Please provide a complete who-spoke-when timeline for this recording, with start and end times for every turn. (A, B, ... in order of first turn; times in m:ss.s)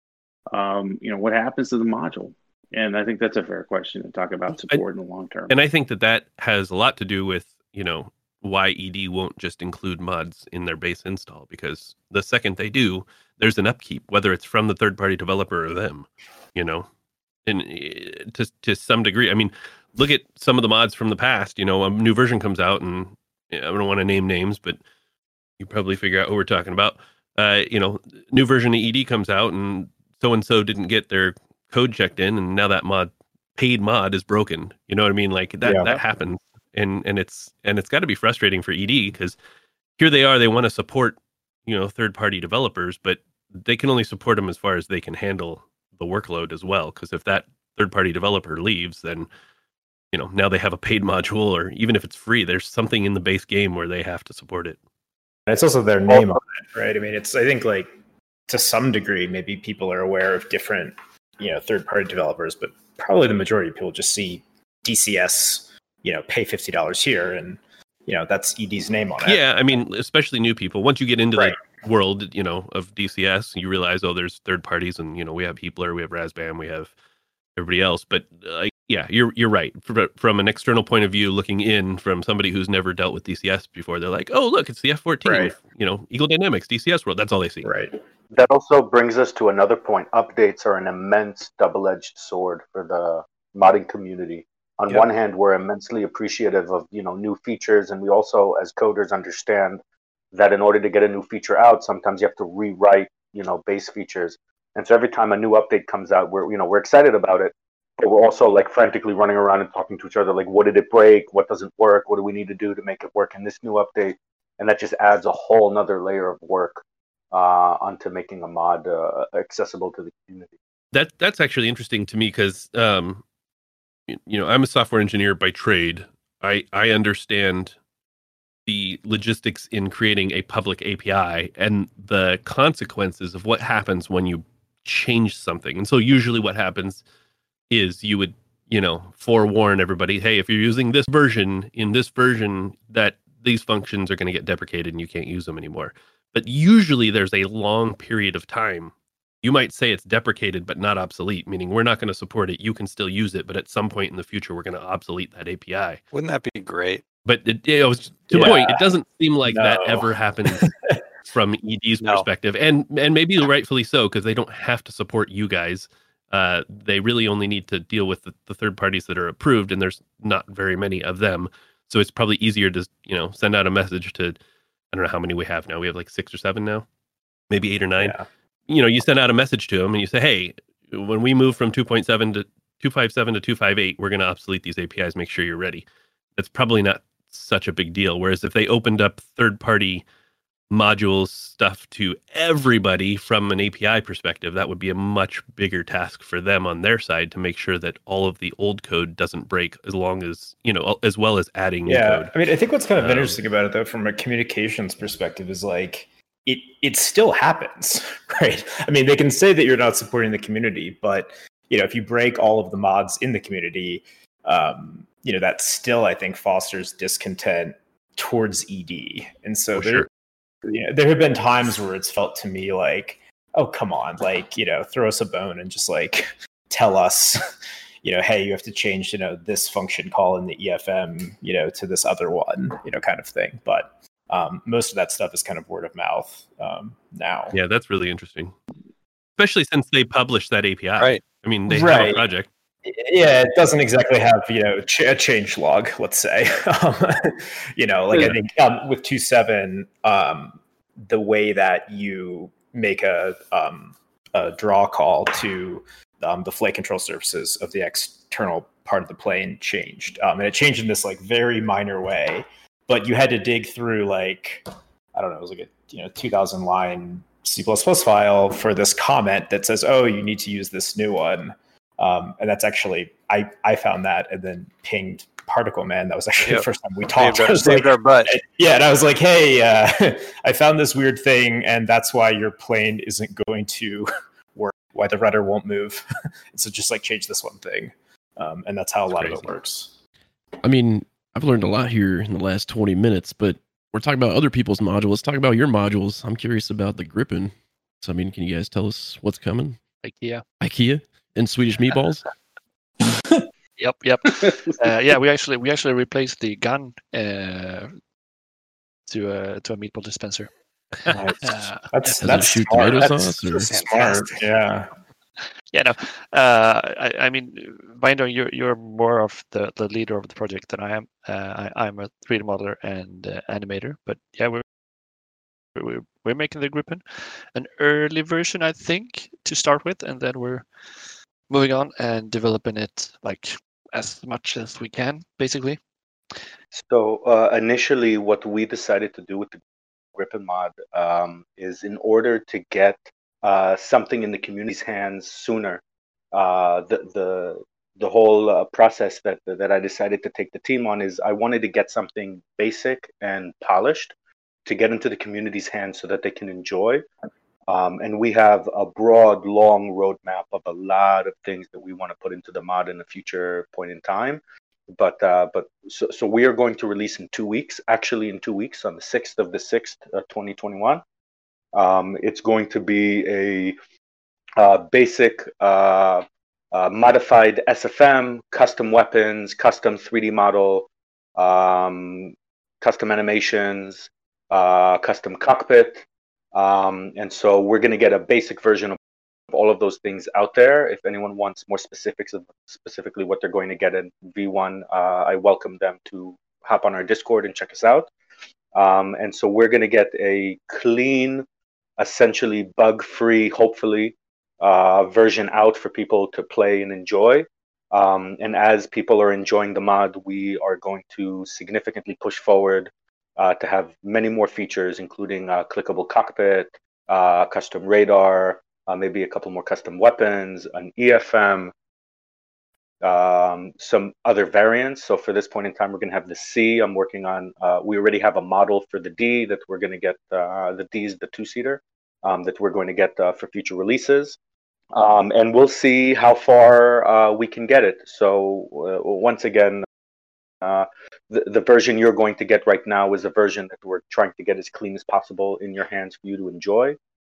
0:00.5-0:05.5 A
0:05.5-0:16.9 B
0:17.4-0:24.8 B
0:25.6-0:39.4 B
0:35.6-0:36.0 C
0:40.0-0:49.3 B
0:50.1-0:54.8 B
0:55.5-0:57.9 C
0:58.5-1:09.4 C
1:09.2-1:16.9 B
1:17.6-1:27.7 B
1:25.2-1:25.5 C
1:27.6-1:27.9 C
1:28.3-1:39.8 D
1:40.3-2:00.5 D
2:00.9-2:03.2 B
2:04.1-2:07.7 B
2:08.6-2:17.0 B
2:17.7-2:36.0 B
2:36.1-2:37.0 E
2:37.2-2:40.7 B
2:38.3-2:38.9 C
2:39.4-2:41.0 C
2:41.3-2:54.4 B
2:42.0-2:42.2 E
2:54.9-2:56.8 B
2:57.5-2:58.2 B
2:58.0-2:58.2 C
2:58.7-3:05.8 B
3:06.4-3:10.0 B
3:10.7-3:22.3 B
3:21.8-3:40.1 C
3:23.0-3:23.4 B
3:39.8-3:40.1 B
3:40.7-3:47.5 C
3:48.0-3:57.5 C
3:57.5-3:58.5 B
3:59.4-4:02.5 B
4:01.7-4:02.3 C
4:02.8-4:49.9 C
4:37.2-4:38.3 E
4:49.1-4:49.4 B
4:50.6-4:59.8 F
5:00.0-5:00.4 G
5:00.6-5:02.2 F
5:03.8-5:07.9 G
5:09.1-5:10.5 G
5:11.1-5:14.9 C
5:11.4-5:12.1 G
5:12.2-5:13.7 F
5:13.7-5:14.4 E
5:15.7-5:24.6 G
5:25.8-5:27.0 G
5:27.5-5:30.6 G
5:31.5-5:35.8 G
5:36.7-5:39.6 D
5:40.1-5:45.8 D
5:46.3-5:54.1 D
5:54.6-5:57.0 D
5:57.7-6:04.4 D
6:04.9-6:11.0 D
6:11.7-6:13.7 D
6:14.6-6:29.0 D
6:29.5-6:38.1 D
6:38.7-6:41.4 D
6:42.0-7:01.7 D
7:03.0-7:14.4 D
7:14.9-7:19.8 D
7:20.6-7:27.0 D